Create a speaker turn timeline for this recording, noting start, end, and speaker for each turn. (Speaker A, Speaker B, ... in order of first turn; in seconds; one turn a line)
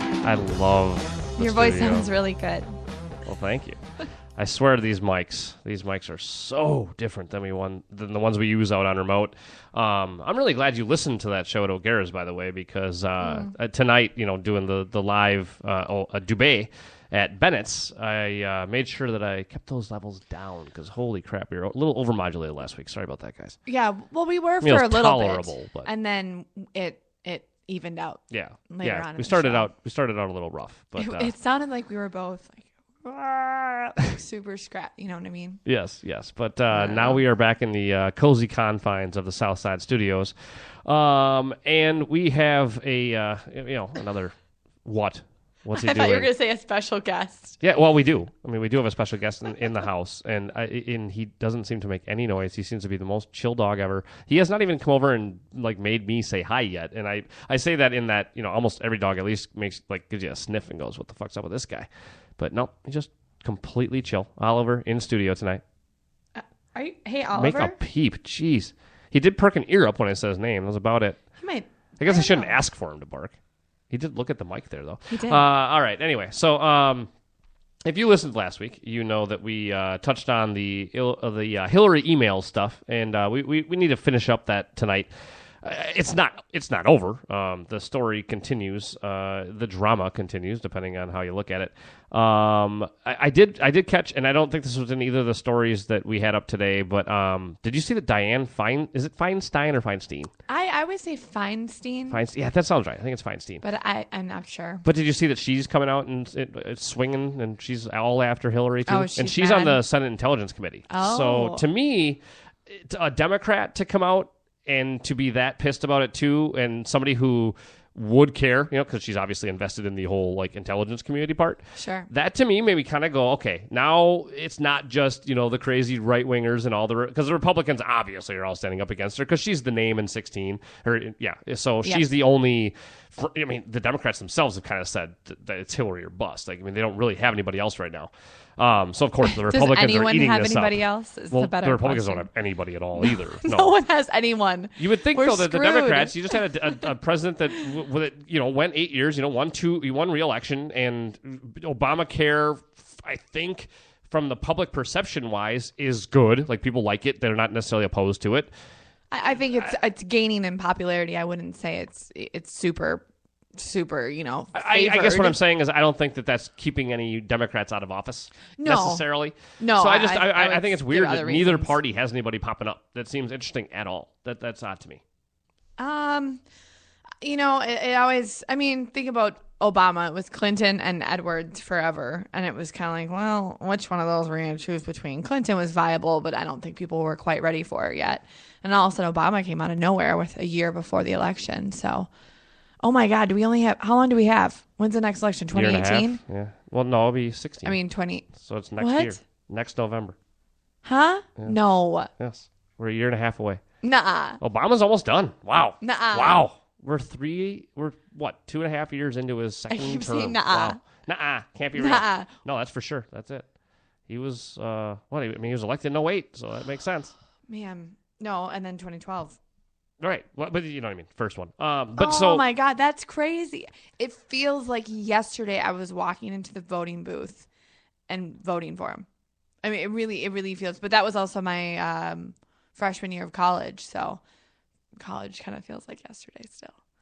Speaker A: 0.2-2.1
Speaker B: 1.4-2.7
Speaker A: 3.2-3.8
Speaker A: 4.4-23.6
Speaker B: 13.2-13.5
Speaker B: 23.7-29.7
Speaker A: 24.6-25.9
Speaker A: 28.3-31.3
Speaker B: 31.0-32.7
Speaker A: 33.0-34.0
Speaker B: 34.1-35.6
Speaker A: 35.7-46.3
Speaker B: 36.7-37.2
Speaker B: 45.7-47.6
Speaker A: 47.6-65.6
Speaker B: 66.3-67.8
Speaker A: 67.3-71.2
Speaker B: 71.4-72.6
Speaker A: 72.0-73.4
Speaker A: 73.9-77.1
Speaker B: 75.1-75.4
Speaker A: 77.8-100.3
Speaker B: 100.5-102.2
Speaker A: 102.1-103.6
Speaker B: 103.6-104.8
Speaker A: 104.8-143.7
Speaker B: 108.9-109.8
Speaker B: 110.9-111.6
Speaker B: 121.8-122.1
Speaker B: 139.2-142.3
Speaker B: 143.0-146.4
Speaker A: 144.8-158.5
Speaker B: 159.1-163.0
Speaker B: 163.6-165.4
Speaker A: 164.5-175.0
Speaker B: 168.6-169.0
Speaker B: 169.6-171.8
Speaker B: 175.8-176.4
Speaker B: 177.2-192.1
Speaker B: 192.8-196.2
Speaker A: 195.5-200.2
Speaker B: 197.6-199.2
Speaker B: 200.8-202.1
Speaker A: 202.1-203.6
Speaker B: 203.8-204.4
Speaker A: 204.4-213.5
Speaker B: 205.8-206.4
Speaker B: 209.7-210.8
Speaker B: 211.8-212.3
Speaker A: 214.1-217.1
Speaker B: 217.5-219.4
Speaker A: 220.0-222.4
Speaker B: 222.0-227.5
Speaker B: 228.1-229.1
Speaker B: 229.6-234.2
Speaker B: 235.0-236.7